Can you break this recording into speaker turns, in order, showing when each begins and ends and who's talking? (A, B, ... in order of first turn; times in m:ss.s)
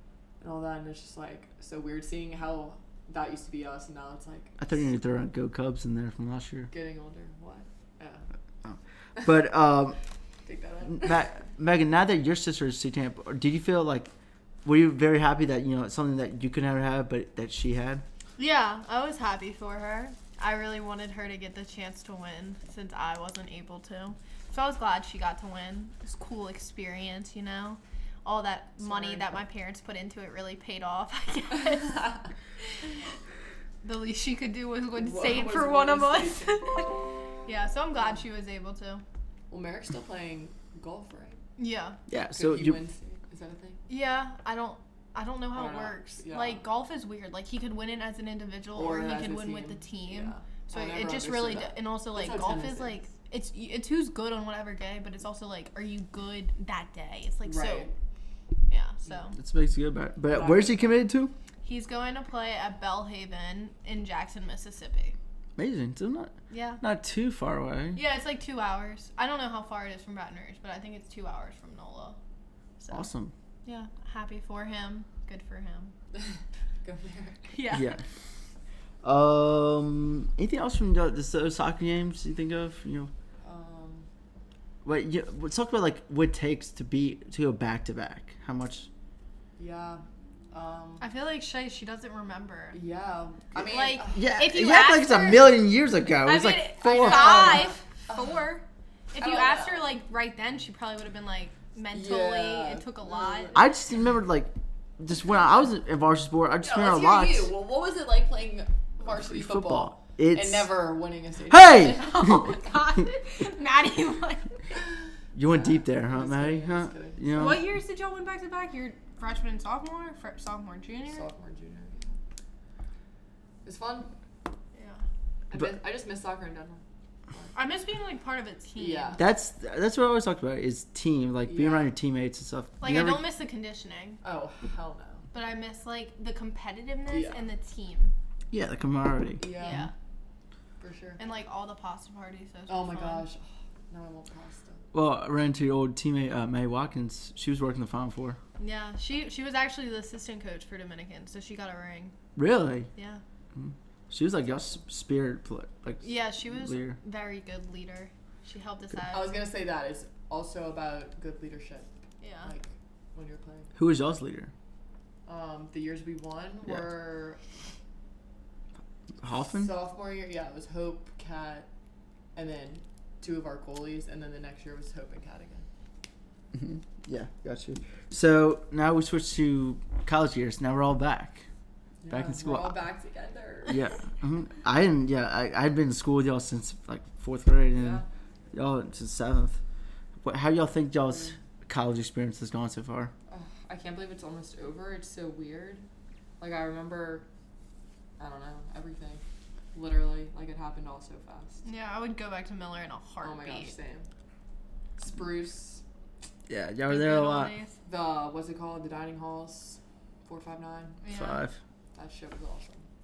0:00.4-0:04.6 A
0:04.6-0:06.7 B
0:06.7-0:08.2 A
0:08.6-0:10.0 B
0:10.5-0:11.3 A
0:10.8-0:14.1 B
0:14.6-0:18.0 B
0:18.4-0:32.2 C
0:28.8-0:29.4 A
0:33.8-0:39.0 C
0:35.0-0:36.7 A
0:39.5-0:41.4 A
0:41.6-0:42.0 C
0:42.1-0:42.8 B
0:42.3-0:43.8 A
0:43.9-0:57.9 C
0:45.5-0:46.6 A
0:48.8-0:53.0 A
0:57.4-0:57.9 A
0:58.7-0:59.4 C
0:59.4-1:01.3 B
1:00.3-1:00.9 A
1:01.6-1:05.2 C
1:05.6-1:08.0 B
1:06.5-1:06.8 C
1:08.0-1:12.2 C
1:12.8-1:13.1 C
1:12.9-1:13.3 B
1:13.6-1:15.9 C
1:16.1-1:17.5 A
1:17.5-1:17.9 C
1:17.7-1:18.0 B
1:19.0-1:23.1 B
1:23.4-1:24.1 A
1:24.8-1:28.9 B
1:29.6-1:31.0 A
1:31.0-1:32.8 C
1:32.7-1:34.3 A
1:33.6-1:35.6 C
1:34.1-1:37.7 B
1:36.2-1:43.6 C
1:36.8-1:38.4 A
1:39.2-1:39.9 A
1:41.9-1:43.6 A
1:43.5-1:47.5 B
1:46.6-1:52.4 A
1:49.1-1:50.7 B
1:51.5-1:52.5 B
1:51.8-1:54.6 C
1:55.4-1:57.7 B
1:55.4-1:57.4 A
1:57.3-2:01.3 C
2:01.1-2:02.2 A
2:03.6-2:04.1 A
2:04.8-2:05.0 C
2:05.5-2:07.6 A
2:07.6-2:09.2 C
2:08.8-2:09.2 A
2:09.2-2:13.2 B
2:11.4-2:11.9 A
2:12.8-2:14.2 C
2:14.2-2:15.3 A
2:15.3-2:18.1 C
2:17.1-2:17.4 A
2:18.5-2:19.5 B
2:19.4-2:19.9 A
2:19.6-2:19.9 C
2:20.8-2:21.2 A
2:21.2-2:23.3 C
2:22.7-2:24.8 A
2:24.9-2:28.4 B
2:28.6-2:32.1 C
2:32.4-2:32.9 B
2:32.9-2:33.2 C
2:33.6-2:37.0 B
2:36.0-2:39.4 C
2:39.1-2:41.9 A
2:42.2-2:42.5 C
2:42.4-2:43.7 A
2:43.8-2:44.5 B
2:45.3-2:47.4 A
2:49.2-2:49.7 B
2:49.5-2:51.7 A
2:52.4-2:55.7 A
2:56.5-3:01.4 B
3:02.0-3:04.0 A
3:02.1-3:02.8 B
3:03.7-3:09.6 B
3:07.7-3:08.1 A
3:10.2-3:13.1 B
3:13.3-3:15.8 A
3:16.4-3:17.3 A
3:18.2-3:19.2 A
3:19.7-3:21.6 A
3:21.6-3:23.7 C
3:23.2-3:24.1 A
3:25.0-3:25.8 A
3:26.5-3:27.5 B
3:26.9-3:27.7 C
3:27.9-3:31.0 A
3:31.0-3:31.4 C
3:31.1-3:31.6 B
3:32.0-3:32.9 A